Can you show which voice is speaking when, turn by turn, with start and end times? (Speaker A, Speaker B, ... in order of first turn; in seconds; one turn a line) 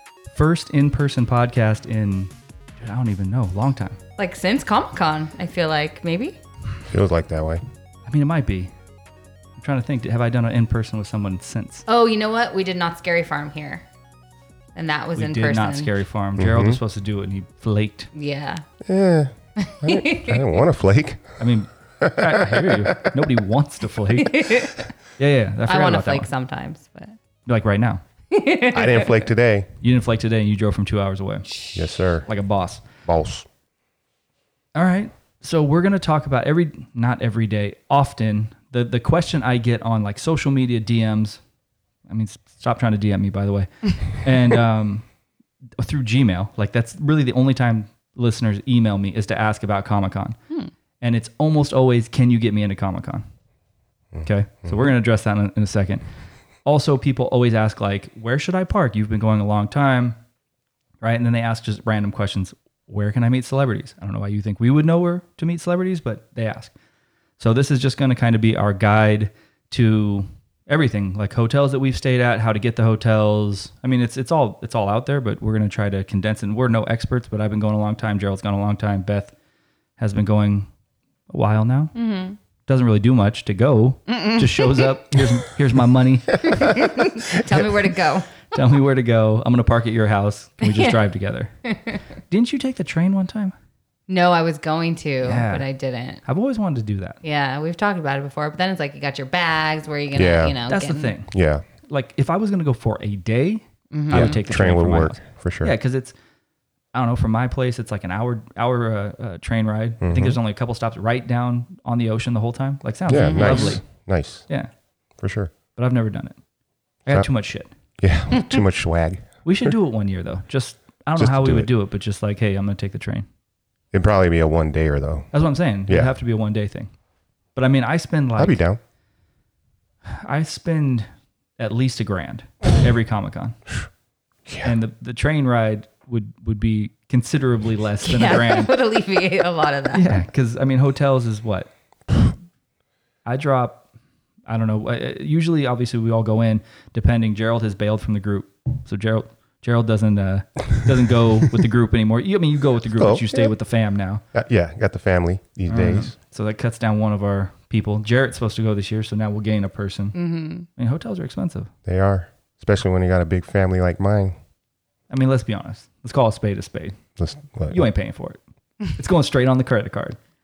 Speaker A: 0.3-4.0
Speaker B: 4.2-6.4
Speaker C: 6.9-7.6
Speaker A: 8.1-8.7
Speaker A: 9.6-11.9
Speaker B: 11.9-13.8
Speaker B: 14.8-15.9
Speaker A: 15.2-18.1
Speaker C: 16.4-16.8
Speaker B: 18.1-18.6
Speaker C: 18.8-21.4
Speaker B: 19.6-20.5
Speaker A: 21.4-24.7
Speaker C: 22.0-23.1
Speaker B: 24.2-24.9
Speaker A: 25.2-26.3
Speaker B: 25.7-27.1
Speaker A: 27.5-28.0
Speaker B: 28.3-29.3
Speaker C: 28.7-29.7
Speaker A: 29.8-31.6
Speaker C: 31.8-32.3
Speaker A: 32.2-32.8
Speaker C: 33.1-33.5
Speaker A: 34.8-41.4
Speaker A: 42.1-45.0
Speaker A: 45.8-50.4
Speaker A: 51.0-53.3
Speaker C: 54.1-54.8
Speaker A: 54.2-56.0
Speaker A: 56.6-60.2
Speaker A: 61.0-66.7
Speaker A: 67.4-79.3
Speaker A: 80.0-80.7
Speaker A: 81.3-81.9
Speaker B: 82.0-82.4
Speaker A: 82.7-86.7
Speaker B: 84.1-84.9
Speaker B: 86.5-88.5
Speaker A: 88.5-91.5
Speaker B: 90.6-91.0
Speaker B: 91.7-92.0
Speaker A: 92.3-93.5
Speaker B: 94.1-96.2
Speaker A: 95.2-95.7
Speaker A: 96.2-97.2
Speaker B: 97.2-101.1
Speaker C: 100.2-100.6
Speaker A: 100.7-106.2
Speaker C: 101.3-101.6
Speaker B: 103.9-104.4
Speaker C: 104.1-105.7
Speaker A: 106.9-113.8
Speaker C: 110.0-110.4
Speaker C: 113.1-114.5
Speaker B: 113.1-113.8
Speaker C: 115.2-115.5
Speaker A: 115.8-116.4
Speaker A: 117.0-117.7
Speaker C: 118.0-119.8
Speaker B: 118.3-118.6
Speaker A: 119.4-123.3
Speaker C: 121.2-121.7
Speaker C: 123.9-125.3
Speaker A: 125.3-126.9
Speaker A: 127.5-128.6
Speaker C: 128.4-128.8
Speaker A: 130.1-133.6
Speaker C: 134.5-134.8
Speaker A: 134.6-138.7
Speaker B: 138.0-140.2
Speaker A: 139.9-141.7
Speaker A: 143.2-143.8
Speaker A: 144.5-154.2
Speaker C: 153.0-153.5
Speaker C: 154.3-156.1
Speaker A: 155.7-160.2
Speaker B: 160.2-160.7
Speaker A: 160.8-161.7
Speaker C: 161.9-164.4
Speaker A: 165.1-167.0
Speaker C: 167.2-167.8
Speaker A: 167.7-168.4
Speaker A: 168.9-170.2